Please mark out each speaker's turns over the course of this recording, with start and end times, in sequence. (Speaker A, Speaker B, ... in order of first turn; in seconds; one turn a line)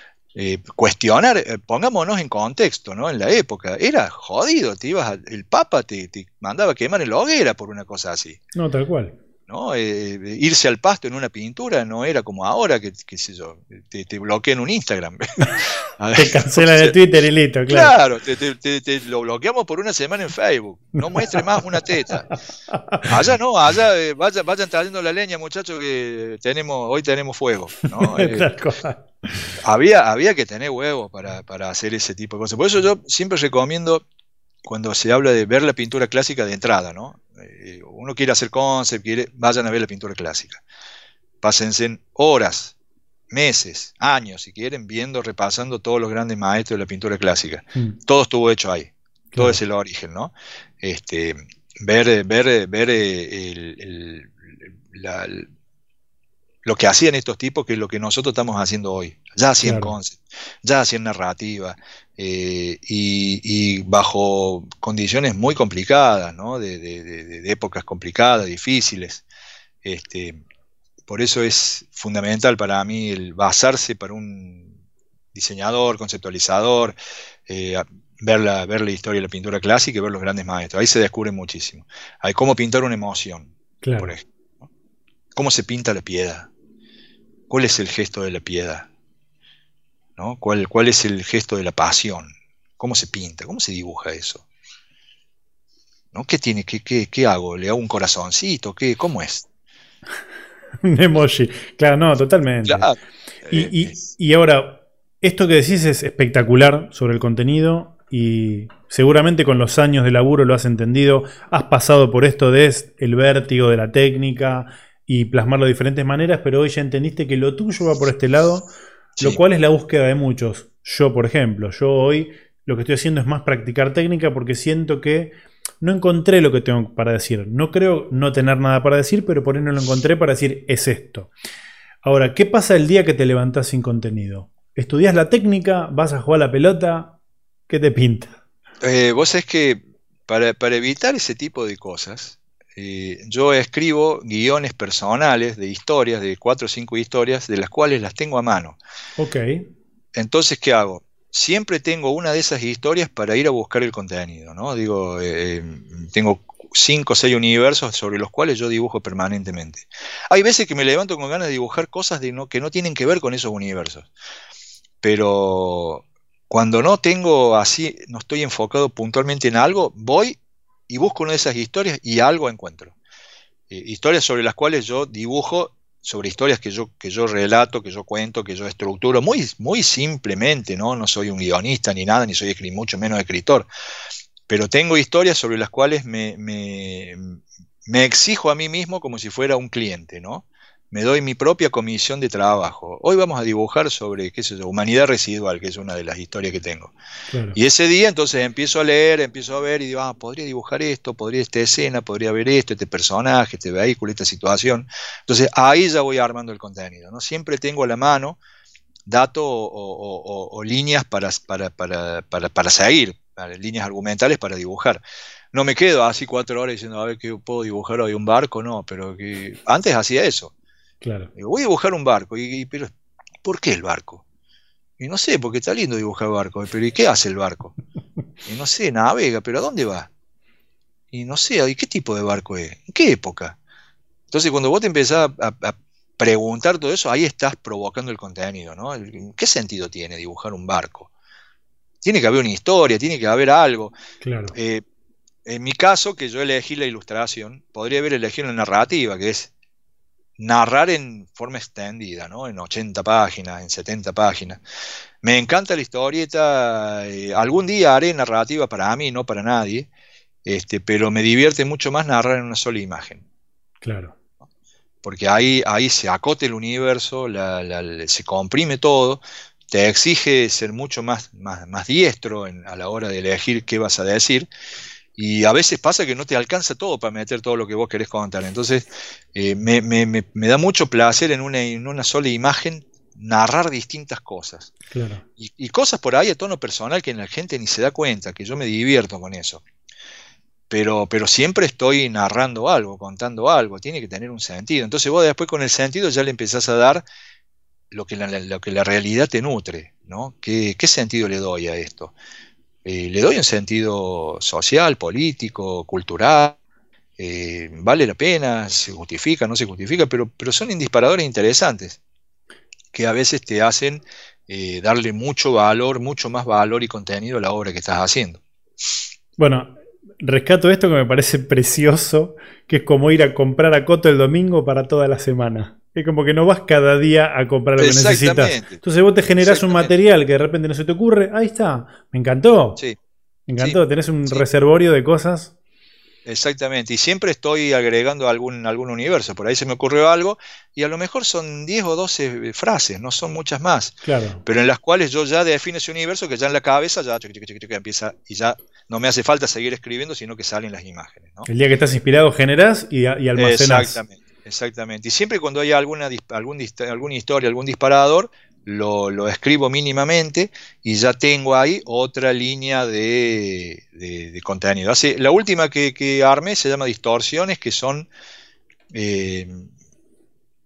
Speaker A: 0.3-8.4
Speaker B: 8.6-9.2
Speaker A: 9.5-16.9
Speaker B: 16.1-17.9
Speaker A: 17.7-22.3
Speaker B: 21.0-21.4
Speaker B: 22.3-23.1
Speaker A: 23.1-28.6
Speaker B: 27.9-29.6
Speaker A: 29.6-34.0
Speaker A: 34.6-40.6
Speaker A: 41.4-42.8
Speaker A: 43.3-55.5
Speaker B: 49.3-49.6
Speaker A: 56.6-69.2
Speaker B: 59.6-60.0
Speaker A: 69.8-70.4
Speaker A: 71.1-74.7
Speaker A: 75.3-77.0
Speaker A: 77.5-84.7
Speaker B: 83.8-84.2
Speaker A: 85.3-86.5
Speaker A: 87.5-88.9
Speaker A: 90.2-94.4
Speaker A: 96.1-99.5
Speaker B: 100.8-102.9
Speaker A: 102.7-104.0
Speaker B: 103.5-118.7
Speaker B: 119.2-131.3
Speaker B: 132.0-137.2
Speaker B: 137.7-138.3
Speaker A: 138.8-148.8
Speaker B: 149.2-149.7
Speaker A: 150.2-164.1
Speaker A: 165.0-172.9
Speaker A: 173.7-183.7
Speaker A: 184.5-196.9
Speaker B: 197.3-197.6
Speaker A: 197.6-208.4
Speaker A: 209.1-215.0
Speaker A: 215.5-220.5
Speaker B: 221.0-221.3
Speaker A: 221.4-222.9
Speaker A: 223.4-224.2
Speaker A: 225.0-227.8
Speaker A: 228.5-230.1
Speaker A: 231.1-233.6
Speaker A: 234.3-241.1
Speaker A: 242.0-243.9
Speaker B: 244.2-244.6
Speaker A: 244.5-244.8
Speaker A: 245.4-249.5
Speaker A: 250.4-254.6
Speaker A: 255.2-259.9
Speaker A: 260.4-263.2
Speaker B: 263.8-264.2
Speaker A: 265.0-274.5
Speaker A: 275.2-284.7
Speaker B: 284.9-285.2
Speaker A: 285.4-289.6
Speaker A: 290.7-297.1
Speaker A: 297.9-302.1
Speaker A: 302.9-306.6
Speaker A: 307.2-312.0
Speaker A: 312.9-318.4
Speaker B: 319.4-332.8
Speaker A: 327.8-328.8
Speaker A: 329.4-329.9
Speaker B: 333.5-335.5
Speaker A: 333.6-334.4
Speaker A: 336.2-351.5
Speaker B: 344.0-344.4
Speaker B: 351.5-354.0
Speaker A: 353.4-368.1
Speaker A: 368.9-369.7